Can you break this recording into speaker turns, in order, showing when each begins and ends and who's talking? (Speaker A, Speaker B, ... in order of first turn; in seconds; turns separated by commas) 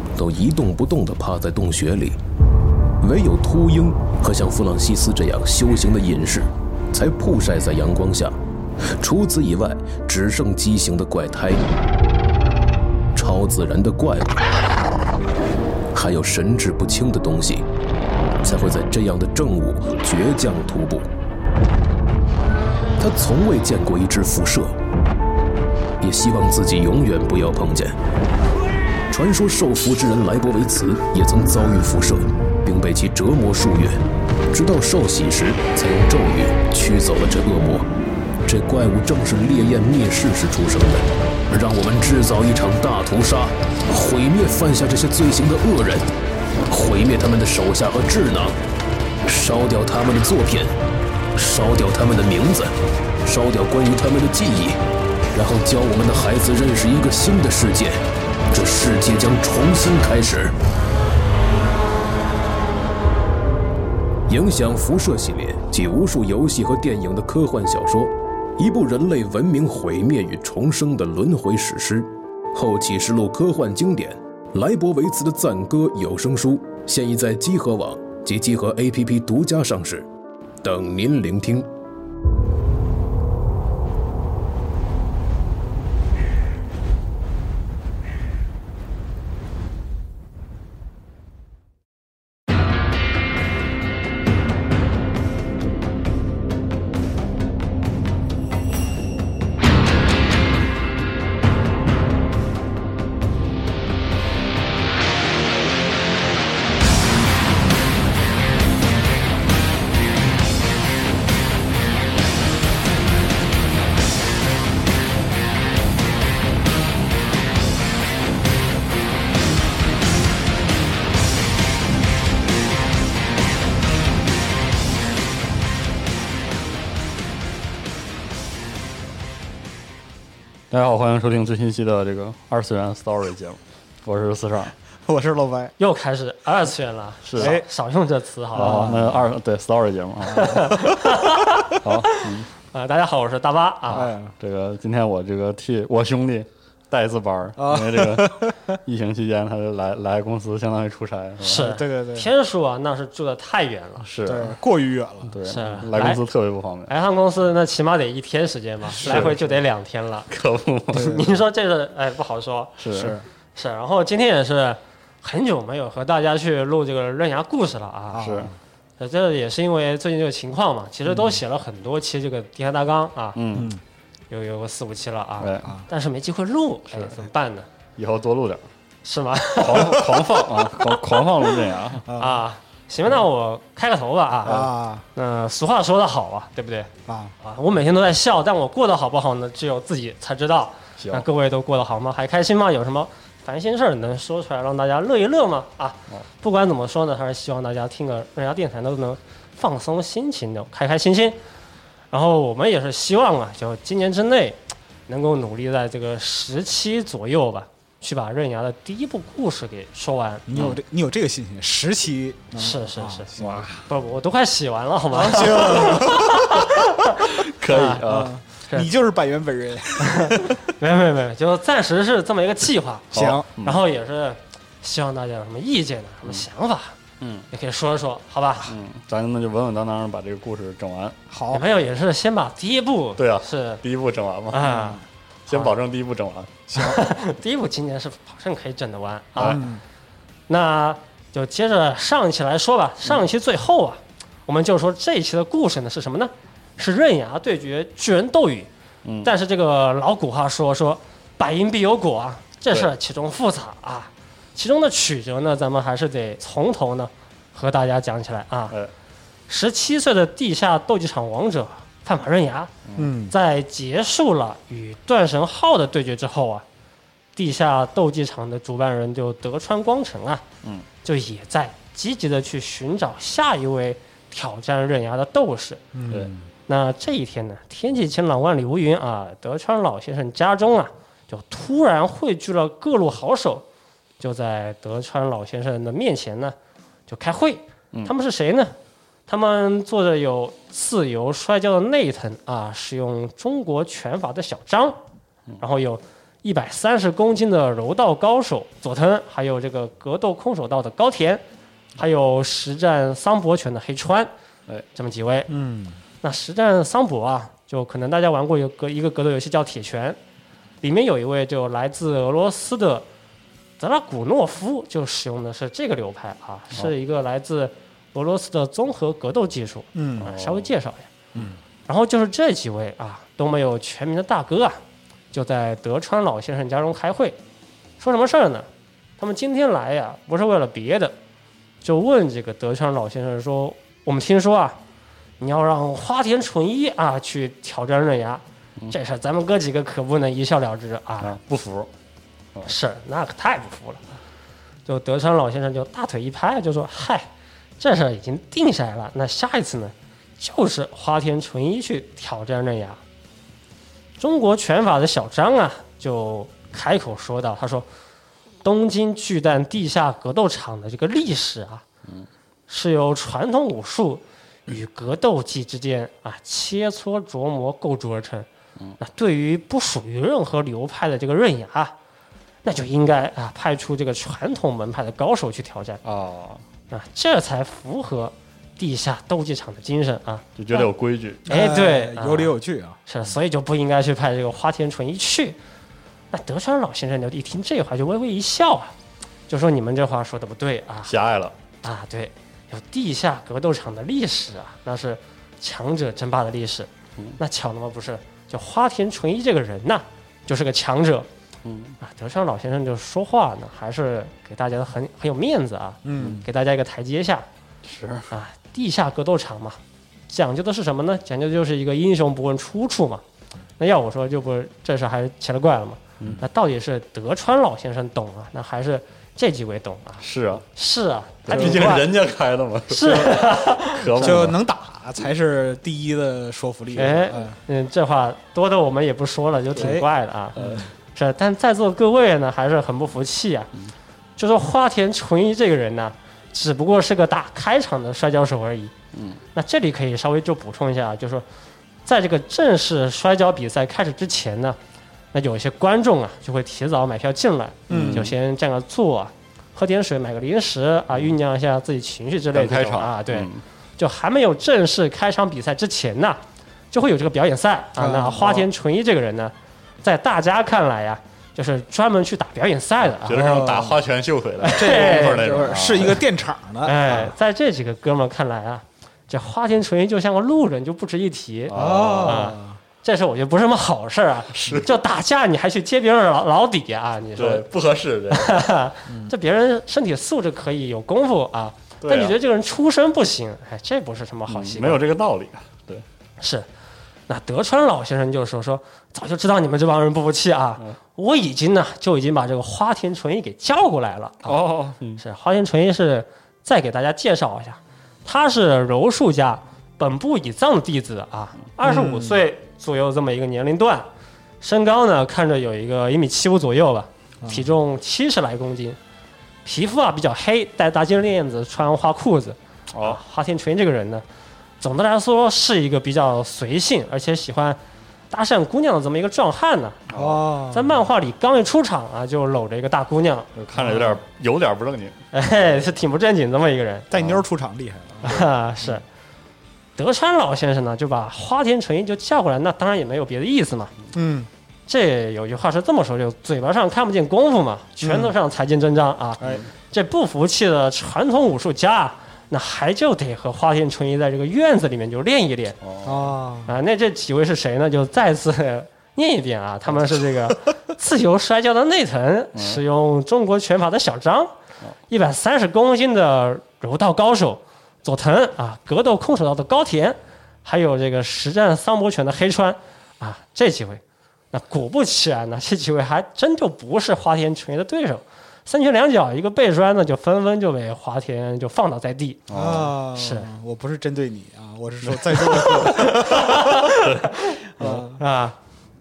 Speaker A: 0.1-2.2, Speaker A: 3.0-11.7, Speaker A: 13.1-14.4, Speaker A: 15.9-17.6, Speaker A: 18.4-21.1, Speaker A: 23.0-24.8, Speaker A: 26.0-27.9, Speaker A: 29.1-37.9, Speaker A: 38.5-46.1, Speaker A: 46.7-48.6, Speaker A: 49.2-50.7, Speaker A: 51.3-54.8, Speaker A: 55.3-60.5, Speaker A: 64.3-80.1, Speaker A: 80.6-81.7, Speaker B: 130.7-134.7, Speaker C: 135.1-135.7, Speaker D: 135.8-139.0, Speaker B: 137.2-137.6, Speaker C: 137.4-137.7, Speaker C: 138.5-139.2, Speaker B: 138.5-140.7, Speaker C: 140.2-140.9, Speaker D: 140.3-144.1, Speaker B: 141.8-142.5, Speaker B: 143.9-151.7, Speaker C: 143.9-144.3, Speaker C: 147.6-148.6, Speaker D: 151.4-154.1, Speaker C: 151.4-152.3, Speaker B: 154.0-154.6, Speaker C: 154.2-155.3, Speaker B: 155.2-156.9, Speaker D: 155.4-156.2, Speaker D: 156.9-160.3, Speaker C: 159.0-159.6, Speaker B: 159.0-159.3, Speaker B: 160.3-161.2, Speaker C: 160.9-161.3, Speaker D: 160.9-162.9, Speaker B: 162.8-163.2, Speaker C: 162.9-163.2, Speaker D: 163.5-168.3, Speaker C: 168.1-168.6, Speaker B: 168.2-168.5, Speaker D: 169.0-173.4, Speaker B: 173.3-173.7, Speaker C: 173.5-173.8, Speaker D: 174.3-177.7, Speaker B: 175.4-175.7, Speaker B: 178.0-178.6, Speaker D: 179.0-180.1, Speaker B: 179.6-182.1, Speaker C: 182.1-182.4, Speaker D: 182.2-186.9, Speaker C: 184.4-185.0, Speaker C: 187.1-187.3, Speaker D: 187.4-201.4, Speaker B: 191.0-191.3, Speaker D: 202.1-210.5, Speaker C: 210.5-213.7, Speaker B: 210.5-210.8, Speaker D: 212.6-213.3, Speaker B: 213.4-213.8, Speaker D: 213.9-218.0, Speaker C: 215.1-216.6, Speaker B: 217.3-218.3, Speaker C: 218.0-220.6, Speaker D: 220.1-227.0, Speaker C: 223.1-223.4, Speaker B: 223.1-223.8, Speaker B: 227.2-227.5, Speaker D: 227.5-228.7, Speaker B: 228.6-231.2, Speaker C: 231.3-231.6, Speaker D: 231.5-233.8, Speaker B: 233.2-234.7, Speaker D: 234.5-235.7, Speaker C: 234.6-235.0, Speaker B: 235.5-237.0, Speaker D: 236.7-239.6, Speaker B: 239.3-239.6, Speaker C: 239.4-239.8, Speaker D: 240.5-248.7, Speaker B: 249.0-249.3, Speaker D: 249.2-258.7, Speaker D: 259.5-262.7, Speaker B: 262.9-263.1, Speaker C: 262.9-263.3, Speaker D: 263.3-266.6, Speaker D: 267.4-270.4, Speaker D: 271.0-275.8, Speaker C: 275.9-276.4, Speaker D: 276.7-283.6, Speaker D: 284.2-286.5, Speaker D: 287.1-288.7, Speaker D: 289.3-295.0, Speaker D: 295.6-301.4, Speaker D: 302.0-304.3, Speaker D: 304.9-305.5, Speaker C: 305.5-306.0, Speaker D: 306.2-310.2, Speaker D: 310.8-313.1, Speaker D: 313.8-321.1, Speaker C: 319.9-320.3, Speaker B: 320.2-320.7, Speaker D: 321.9-324.8, Speaker D: 325.3-327.4, Speaker D: 328.0-328.7, Speaker D: 329.2-331.1, Speaker D: 331.8-334.8, Speaker D: 335.4-341.3, Speaker B: 341.2-341.9, Speaker D: 342.6-344.0, Speaker D: 344.9-347.3, Speaker D: 347.8-353.0, Speaker D: 354.2-357.9, Speaker D: 358.6-361.8, Speaker D: 362.7-368.5, Speaker D: 369.0-371.9, Speaker D: 372.6-376.0, Speaker B: 376.0-376.6, Speaker D: 376.9-380.4, Speaker B: 380.6-381.4, Speaker C: 381.4-383.0, Speaker D: 381.5-382.6, Speaker D: 383.1-385.6, Speaker D: 386.3-388.9, Speaker D: 389.5-391.1, Speaker B: 391.1-391.5, Speaker D: 391.8-401.3, Speaker B: 401.6-402.0, Speaker D: 402.0-407.4, Speaker C: 406.0-406.5, Speaker B: 407.8-408.3, Speaker D: 408.3-409.8, Speaker D: 410.3-413.2, Speaker D: 413.8-422.1, Speaker B: 420.2-420.6, Speaker B: 421.5-424.6, Speaker C: 421.5-422.1, Speaker D: 422.9-424.5, Speaker C: 423.0-423.4, Speaker C: 424.2-427.5, Speaker D: 426.9-430.6, Speaker C: 429.7-430.9, Speaker B: 430.6-430.9, Speaker D: 431.1-433.7, Speaker D: 434.4-438.9, Speaker B: 439.1-439.4, Speaker D: 439.5-441.4, Speaker D: 442.1-444.8, Speaker D: 445.3-456.4, Speaker C: 447.9-448.3, Speaker B: 447.9-448.3, Speaker B: 452.5-453.6, Speaker D: 456.9-463.7, Speaker C: 458.0-458.7, Speaker B: 463.2-466.2, Speaker C: 463.3-464.0, Speaker D: 464.6-466.1, Speaker C: 464.6-467.3, Speaker D: 466.8-477.6, Speaker B: 471.7-472.5, Speaker C: 471.7-472.8, Speaker B: 474.5-474.9, Speaker B: 477.4-478.6, Speaker D: 478.3-485.0, Speaker B: 482.0-482.3, Speaker B: 484.5-486.0, Speaker D: 486.4-486.7, Speaker D: 487.3-494.6, Speaker B: 494.4-495.2, Speaker D: 495.2-504.1, Speaker C: 501.8-502.4, Speaker D: 504.6-509.0, Speaker C: 507.4-507.7, Speaker D: 509.6-514.2, Speaker B: 512.9-513.2, Speaker D: 514.8-517.8, Speaker D: 518.3-520.2, Speaker B: 520.1-520.4, Speaker C: 520.1-521.0, Speaker D: 520.7-523.5, Speaker B: 523.5-525.1, Speaker C: 523.7-524.2, Speaker D: 525.3-527.1, Speaker C: 527.1-528.5, Speaker B: 527.1-527.4, Speaker D: 528.2-529.0, Speaker D: 530.0-533.9, Speaker C: 534.1-534.5, Speaker D: 534.9-545.8, Speaker C: 538.0-538.3, Speaker B: 545.8-546.3, Speaker C: 546.0-546.7, Speaker D: 546.6-554.5, Speaker B: 552.5-552.8, Speaker D: 555.1-572.4, Speaker B: 572.5-573.0, Speaker C: 572.5-577.0, Speaker D: 573.1-573.5, Speaker D: 575.4-578.6, Speaker C: 577.8-578.2